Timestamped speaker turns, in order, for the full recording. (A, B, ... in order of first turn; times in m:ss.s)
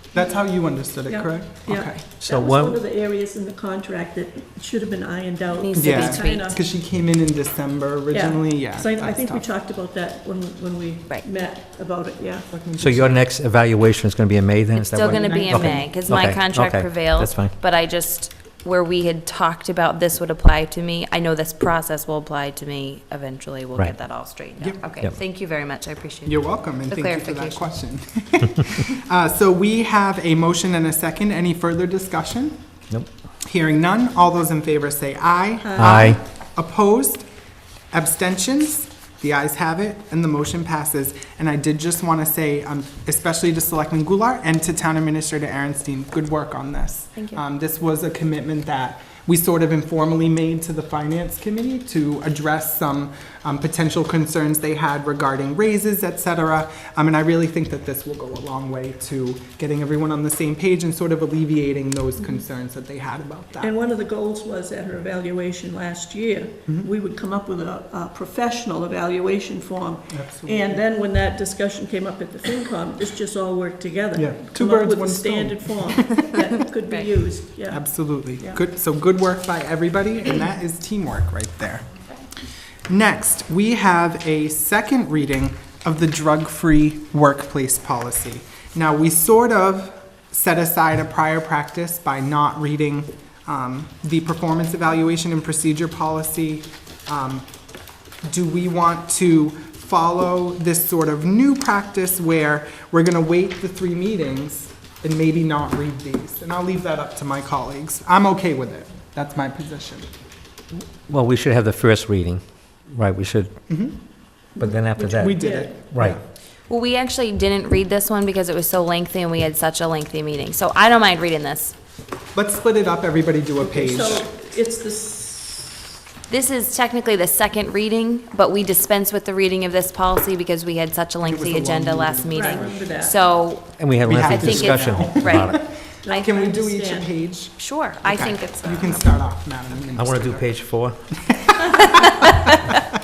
0:00.1-0:02.0 A
0:01.1-0:06.6 B
0:02.3-0:02.8 C
0:05.5-0:06.6 D
0:05.7-0:09.4 A
0:08.1-0:12.5 B
0:12.5-0:13.2 A
0:12.8-0:17.5 C
0:14.7-0:27.7 D
0:15.0-0:15.8 B
0:15.2-0:15.8 A
0:26.2-0:32.6 A
0:33.4-0:37.2 A
0:35.6-0:36.2 B
0:35.8-0:36.2 C
0:37.9-1:03.7 A
0:47.1-0:47.4 D
1:03.6-1:18.6 B
1:10.1-1:10.8 A
1:14.1-1:16.1 A
1:17.7-1:21.8 A
1:22.9-1:37.4 A
1:38.2-1:50.1 A
1:51.1-1:53.5 C
1:53.7-1:54.0 A
1:54.6-1:55.8 B
1:54.6-1:56.2 C
1:54.6-1:56.2 A
1:56.7-2:01.7 D
2:02.3-2:04.3 A
2:03.6-2:05.9 B
2:06.3-2:16.3 D
2:11.2-2:12.8 A
2:12.3-2:13.2 B
2:13.8-2:15.5 C
2:14.0-2:20.5 A
2:16.0-2:17.1 B
2:17.6-2:19.1 D
2:20.0-2:21.0 C
2:21.2-2:22.8 A
2:21.7-2:22.8 D